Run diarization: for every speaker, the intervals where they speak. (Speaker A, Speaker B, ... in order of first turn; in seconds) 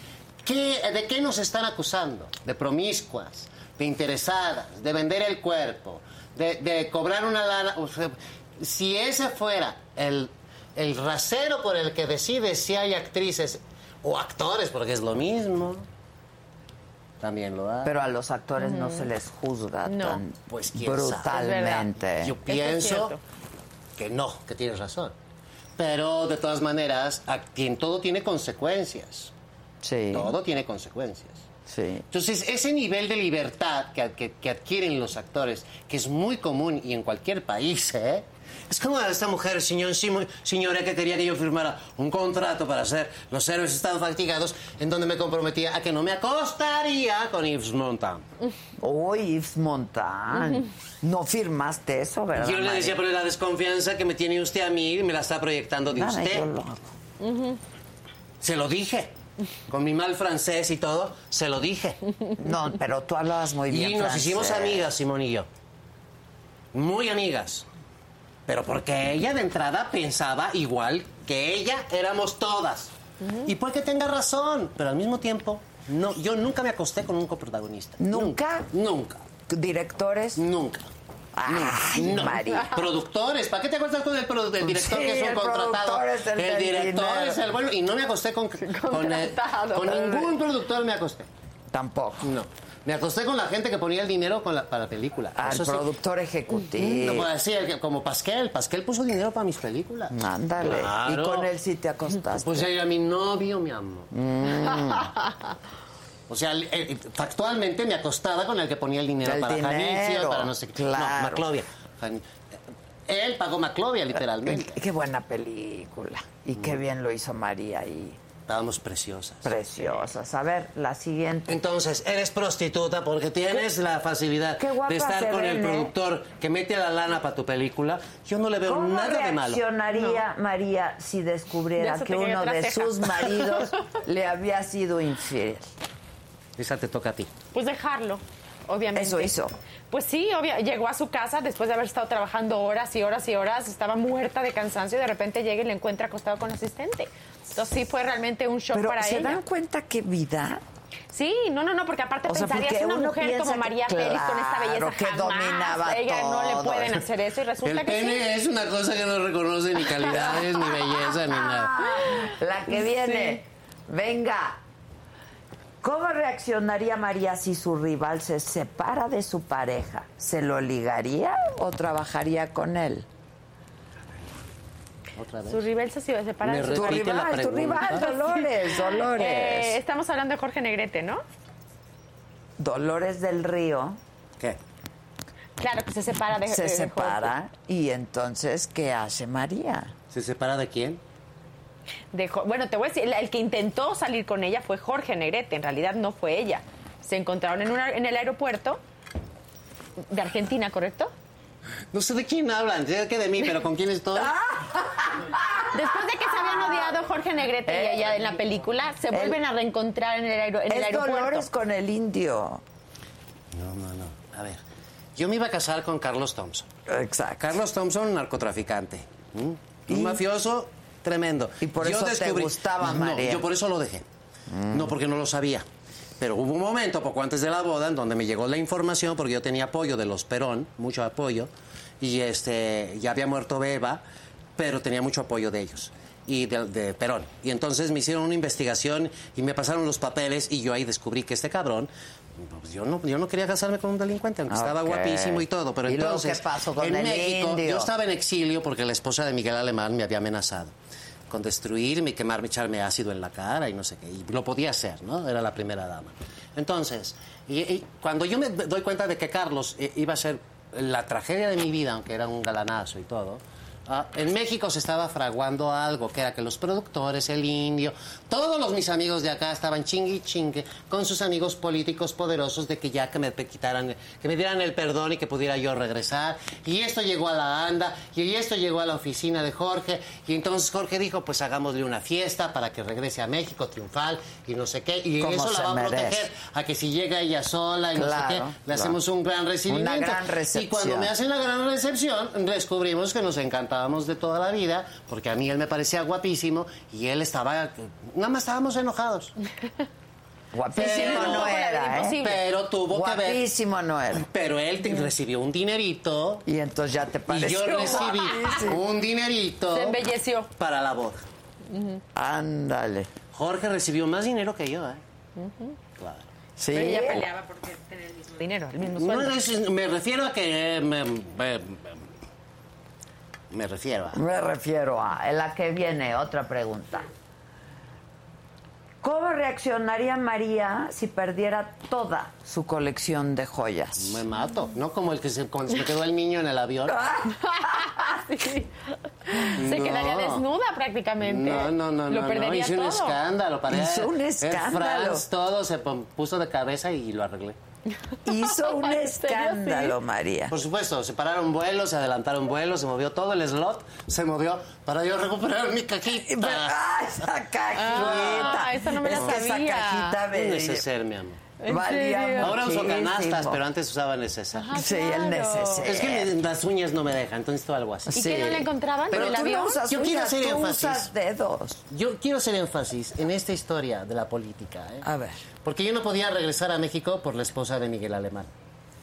Speaker A: 0.4-15.8, 17.2-17.9, 20.5-21.4, 22.2-23.2, 24.0-25.1, 25.8-29.3, 30.1-31.4, 32.1-48.2, 52.4-56.5, 58.4-59.1, 59.7-62.0, 63.7-65.5, 66.7-67.7, 68.5-72.9, 73.4-79.2, 80.3-80.9, 81.5-91.3, 92.2-95.9, 96.7-101.5, 102.4-104.1, 106.3-112.2, 113.1-114.8, 118.5-119.5, 121.5-129.6, 136.6-137.3, 157.6-161.8, 175.2-175.6, 176.4-178.1, 190.1-191.0, 201.9-204.3, 213.5-214.6, 215.2-216.7, 217.4-224.0, 224.7-225.7, 226.2-234.0, 234.6-250.7, 251.3-299.3, 300.8-301.6, 302.2-303.4, 304.1-306.4, 307.3-310.0, 310.6-311.2, 313.3-315.0, 316.0-316.3, 318.9-322.0, 323.5-324.2, 334.0-337.0, 339.6-340.4, 341.2-347.6, 350.5-356.8, 357.9-359.3, 360.3-361.4, 362.4-364.8, 365.8-368.6, 369.1-371.1, 371.9-375.1, 375.6-378.5
Speaker B: 17.8-22.4, 29.8-30.3, 31.7-32.0, 48.8-53.0, 55.9-56.9, 62.4-64.9, 78.0-78.7, 79.5-80.4, 81.3-82.8, 84.6-87.4, 91.7-92.3, 95.4-97.3, 100.1-102.7, 104.1-105.1, 109.2-111.5, 114.4-118.2, 119.4-121.6, 124.6-125.9, 128.7-135.7, 138.9-139.5, 148.7-150.6, 152.3-157.0, 160.1-164.6, 165.8-173.1, 176.7-179.8, 182.6-184.0, 186.5-189.9, 204.2-205.7, 206.5-206.9, 207.7-208.2, 209.1-209.4, 210.7-212.6, 216.9-217.6, 219.9-220.2, 221.6-223.4, 224.5-224.9, 244.5-247.9, 285.2-286.2, 287.9-289.0, 289.7-291.1, 300.5-302.2, 302.9-304.3, 306.4-308.8, 312.1-313.1, 316.6-317.3, 324.1-327.1, 329.0-334.2, 336.9-337.9, 343.7-345.2, 348.2-350.5, 356.1-360.8, 361.7-363.6, 364.7-366.3, 368.1-371.8, 375.0-375.4
Speaker C: 18.6-19.1, 19.8-20.2, 21.3-21.9, 22.5-23.2, 57.2-57.6, 88.6-90.3, 129.9-130.2, 131.8-133.5, 137.5-139.3, 139.9-149.4, 151.1-158.2, 175.5-177.1, 179.1-181.2, 185.6-187.3, 192.1-198.8, 200.1-201.1, 205.7-211.5, 300.8-302.4, 308.3-308.6, 309.7-310.5, 311.7-312.0, 315.4-315.7, 316.7-319.4, 337.3-343.2, 348.6-349.9, 357.8-360.2, 361.6-362.5, 364.5-365.9, 368.1-369.8